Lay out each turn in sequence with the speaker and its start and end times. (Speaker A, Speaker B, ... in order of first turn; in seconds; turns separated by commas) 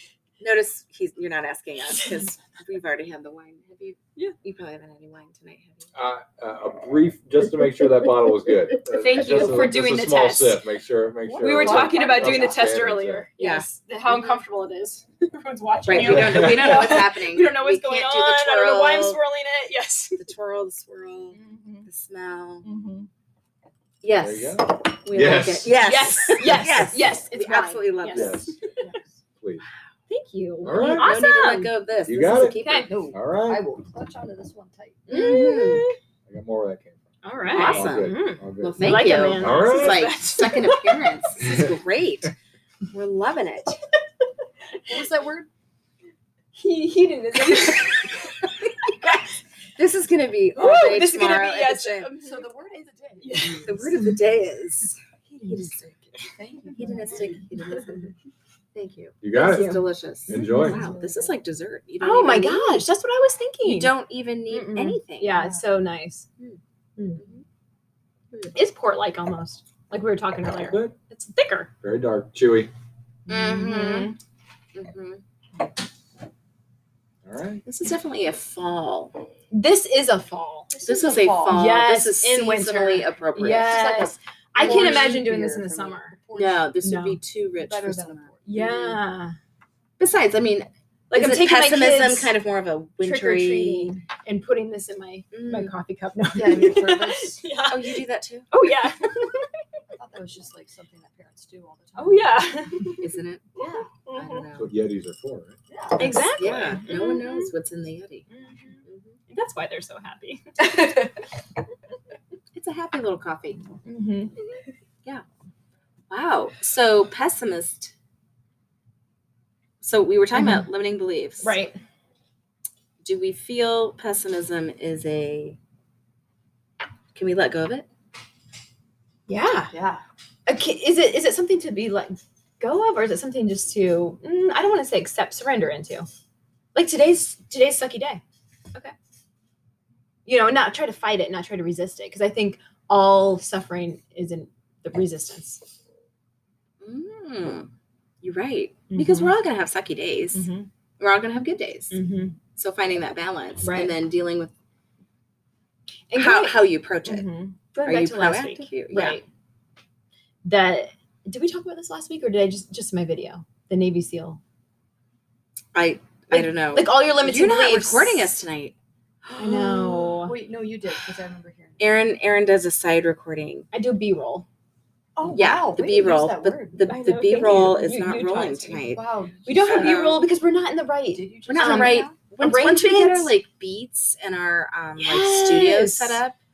Speaker A: 0.4-5.9, Speaker B: 5.9-13.3, Speaker C: 8.8-10.6, Speaker D: 11.2-12.8, Speaker C: 11.4-20.2, Speaker A: 13.4-14.4, Speaker A: 15.8-19.2, Speaker B: 15.9-16.9, Speaker A: 20.2-22.7, Speaker C: 21.3-21.9, Speaker C: 22.6-23.1, Speaker A: 24.0-28.6, Speaker B: 24.2-25.8, Speaker C: 25.8-28.5, Speaker B: 28.1-28.6, Speaker D: 28.8-29.2, Speaker C: 30.1-31.7, Speaker B: 30.6-31.1, Speaker A: 30.7-33.0, Speaker B: 32.0-32.6, Speaker C: 32.6-32.9, Speaker D: 32.9-35.3, Speaker B: 33.1-33.6, Speaker A: 35.1-35.9, Speaker C: 35.1-36.0, Speaker B: 36.3-40.1, Speaker C: 37.2-41.1, Speaker A: 37.5-42.3, Speaker B: 41.4-41.7, Speaker A: 42.9-43.8, Speaker D: 44.9-45.5, Speaker C: 46.5-49.2, Speaker A: 47.4-49.2, Speaker A: 49.8-52.3, Speaker C: 50.5-52.3, Speaker D: 52.2-53.9, Speaker C: 53.2-54.1, Speaker A: 53.5-56.1, Speaker C: 55.3-55.9, Speaker D: 56.3-58.0, Speaker A: 56.7-58.1, Speaker A: 58.7-62.9, Speaker B: 59.2-60.9, Speaker C: 59.4-60.8, Speaker D: 60.5-61.3, Speaker C: 62.0-63.9, Speaker A: 63.6-65.5, Speaker C: 64.5-66.3, Speaker D: 65.3-65.6, Speaker A: 67.2-67.4, Speaker C: 68.5-71.7, Speaker B: 70.6-70.9, Speaker B: 71.8-72.7, Speaker A: 73.3-74.1, Speaker C: 73.3-74.2, Speaker A: 74.7-75.2, Speaker B: 77.2-77.6, Speaker A: 77.7-79.2, Speaker C: 79.5-80.7, Speaker D: 80.7-81.7, Speaker A: 80.8-85.6, Speaker C: 81.5-86.2, Speaker D: 84.5-86.6, Speaker A: 86.3-89.0, Speaker C: 86.8-87.2, Speaker D: 87.6-88.7, Speaker C: 88.5-89.3, Speaker A: 90.0-93.9, Speaker C: 91.1-92.3, Speaker C: 93.0-99.5, Speaker A: 95.3-95.7, Speaker D: 96.3-97.4, Speaker A: 97.7-98.5, Speaker D: 99.9-102.5, Speaker C: 102.0-103.0, Speaker A: 103.0-103.5, Speaker D: 103.5-103.9, Speaker C: 103.6-104.4, Speaker A: 104.1-104.7, Speaker B: 104.5-105.6, Speaker D: 105.7-106.3, Speaker A: 106.0-108.3, Speaker C: 106.0-107.5, Speaker C: 108.3-110.7, Speaker A: 108.8-109.2, Speaker D: 110.6-111.1, Speaker A: 112.5-113.6, Speaker C: 113.8-114.5, Speaker A: 116.1-117.9, Speaker A: 119.8-121.5, Speaker C: 120.3-120.7, Speaker C: 121.4-121.8, Speaker A: 123.0-125.6, Speaker A: 127.1-127.9, Speaker C: 129.3-129.7, Speaker D: 129.7-130.0, Speaker C: 130.4-136.1, Speaker C: 136.7-138.2, Speaker C: 140.2-145.6, Speaker A: 146.8-147.7, Speaker A: 148.2-150.5, Speaker C: 148.9-149.3, Speaker C: 150.3-150.7, Speaker A: 151.0-152.0, Speaker C: 151.9-152.4, Speaker A: 152.6-154.5, Speaker C: 153.6-153.9, Speaker C: 156.1-159.2, Speaker A: 156.1-157.3, Speaker A: 157.8-159.2, Speaker C: 160.4-164.4, Speaker A: 165.7-168.7, Speaker C: 166.3-168.4, Speaker A: 169.2-169.7, Speaker C: 169.4-170.3, Speaker D: 169.4-171.9, Speaker A: 171.8-173.7, Speaker C: 173.7-174.4, Speaker D: 175.2-176.8, Speaker A: 175.3-179.0, Speaker C: 176.8-178.9, Speaker D: 178.8-180.1, Speaker C: 179.4-183.3, Speaker A: 179.6-180.2, Speaker D: 181.1-182.1, Speaker A: 181.5-186.3, Speaker C: 185.0-186.2